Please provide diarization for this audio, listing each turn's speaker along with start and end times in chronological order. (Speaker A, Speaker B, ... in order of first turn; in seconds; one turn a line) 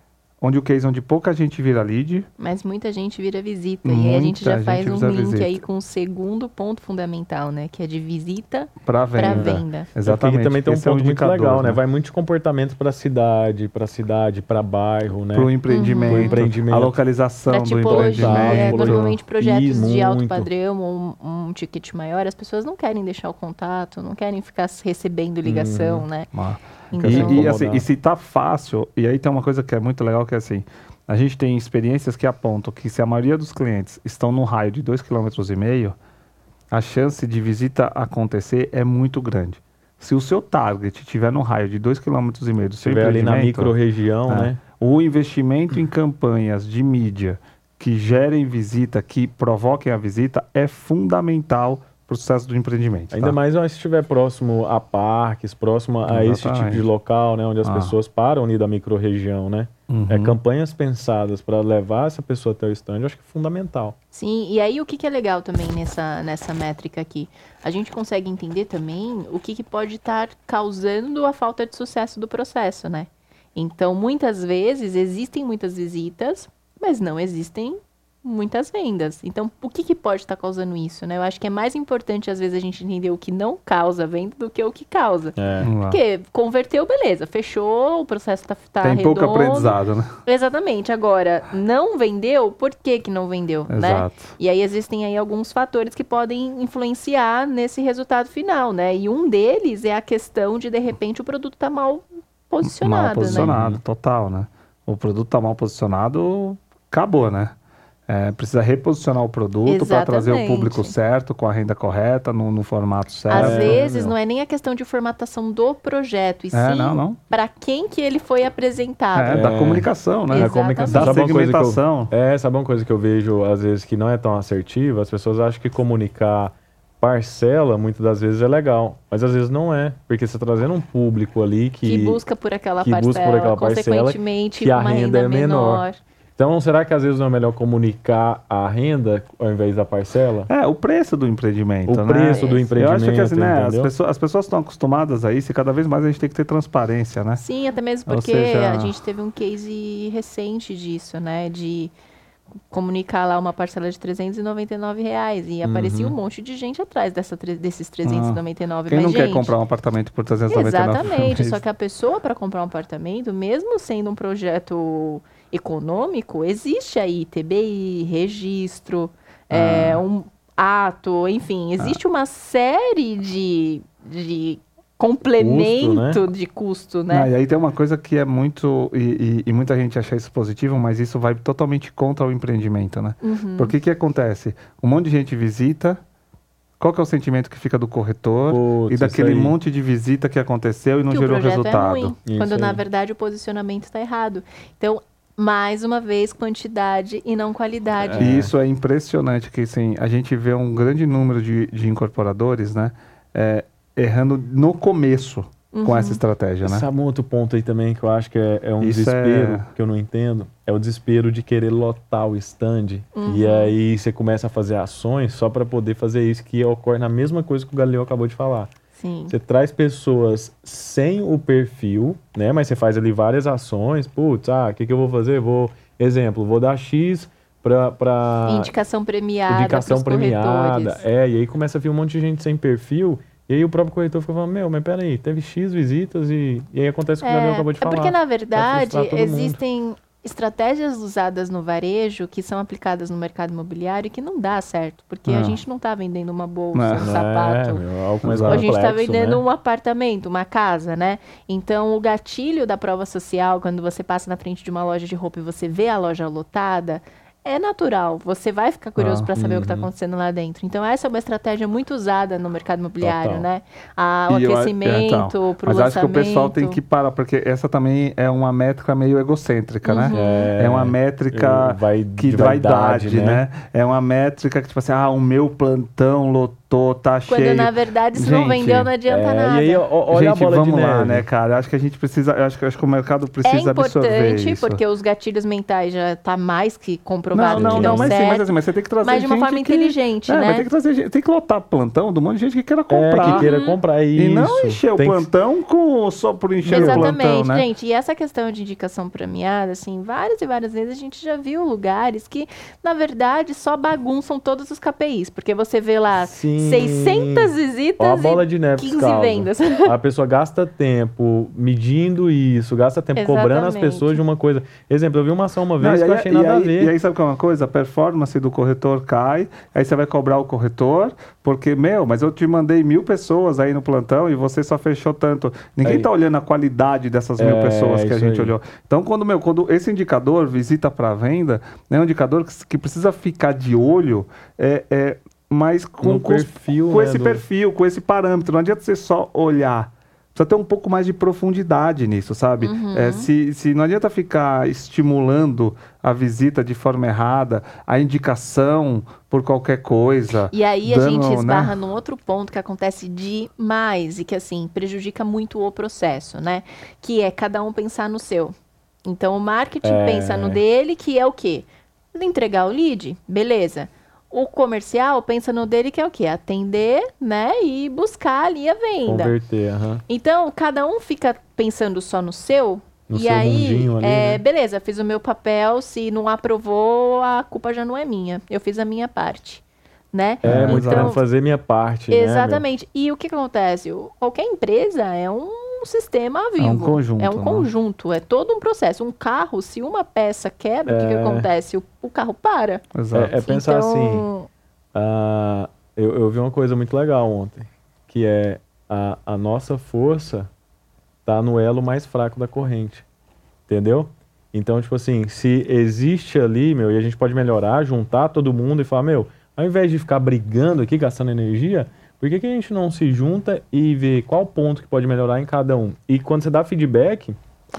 Speaker A: 0.4-2.3
Speaker B: 2.4-9.9
Speaker A: 3.8-5.6
Speaker A: 8.8-11.8
Speaker C: 9.3-15.5
Speaker A: 15.3-19.2
Speaker B: 15.7-16.4
Speaker C: 16.0-17.0
Speaker B: 17.5-26.3
Speaker C: 17.9-20.5
Speaker C: 25.4-26.1
Speaker A: 26.3-36.0
Speaker B: 26.9-27.6
Speaker C: 27.0-27.9
Speaker A: 36.7-43.7
Speaker C: 42.8-44.6
Speaker A: 44.3-53.4
Speaker C: 53.1-64.0
Speaker A: 56.1-56.9
Speaker A: 57.6-57.9
Speaker A: 59.9-60.4
Speaker B: 64.1-85.3
Speaker C: 85.3-85.7
Speaker A: 85.6-86.0
Speaker B: 85.8-103.5
Speaker A: 88.8-90.1
Speaker A: 93.7-94.3
Speaker A: 102.6-107.5
Speaker C: 103.3-103.8
Speaker A: 108.1-113.8
Speaker B: 109.7-110.9
Speaker B: 113.3-119.4
Speaker C: 113.3-114.1
Speaker A: 116.5-117.2
Speaker A: 119.1-122.1
Speaker C: 119.3-132.2
Speaker B: 120.3-121.2
Speaker B: 131.8-136.0
Speaker C: 132.8-135.8
Speaker C: 136.3-140.5
Speaker A: 140.5-147.4
Speaker C: 141.9-143.9
Speaker B: 142.3-142.7
Speaker B: 147.4-151.9
Speaker A: 148.1-148.9
Speaker B: 152.7-159.5
Speaker C: 155.6-156.1
Speaker A: 158.0-161.6
Speaker B: 160.5-177.3
Speaker A: 169.5-170.0
Speaker C: 175.4-176.2
Speaker A: 177.1-186.0
Speaker B: 183.2-183.7
Speaker A: 186.8-192.1
Speaker C: 188.5-189.6
Speaker B: 191.1-198.4
Speaker C: 192.2-192.8
Speaker C: 198.0-198.5
Speaker A: 198.2-206.9
Speaker B: 205.7-206.2
Speaker C: 206.6-218.7
Speaker A: 208.8-209.7
Speaker B: 213.1-213.7
Speaker B: 219.0-219.3
Speaker C: 219.3-228.7
Speaker B: 228.5-231.0
Speaker C: 229.5-239.6
Speaker B: 237.2-247.8
Speaker A: 245.2-245.6
Speaker A: 246.7-247.1
Speaker C: 247.0-249.4
Speaker A: 248.2-248.6
Speaker B: 248.4-266.8
Speaker A: 259.0-259.3
Speaker C: 259.4-259.9
Speaker C: 263.0-263.4
Speaker A: 264.3-278.9
Speaker B: 269.8-270.5
Speaker C: 270.1-273.4
Speaker B: 277.3-279.9
Speaker C: 279.1-281.3
Speaker A: 280.1-284.8
Speaker B: 283.4-288.5
Speaker A: 287.3-293.5
Speaker C: 287.5-288.2
Speaker B: 289.0-290.6
Speaker C: 292.9-295.3
Speaker B: 293.2-293.8
Speaker A: 294.1-297.6
Speaker B: 296.6-309.9
Speaker C: 296.7-297.1
Speaker C: 306.2-316.9
Speaker B: 313.1-314.2
Speaker A: 315.8-351.7
Speaker C: 325.8-326.1
Speaker C: 327.4-328.5
Speaker C: 336.0-337.4
Speaker B: 342.6-343.3
Speaker B: 350.5-358.5
Speaker B: 359.1-369.3
Speaker C: 359.8-360.6
Speaker C: 369.0-370.0
Speaker B: 370.1-381.2
Speaker C: 373.1-374.4
Speaker A: 380.4-381.1
Speaker C: 380.4-382.6
Speaker B: 382.1-394.5
Speaker A: 386.6-387.7
Speaker C: 390.9-391.5
Speaker A: 392.9-393.4
Speaker C: 393.1-394.3
Speaker C: 394.9-400.5
Speaker C: 401.2-403.0
Speaker C: 403.7-417.4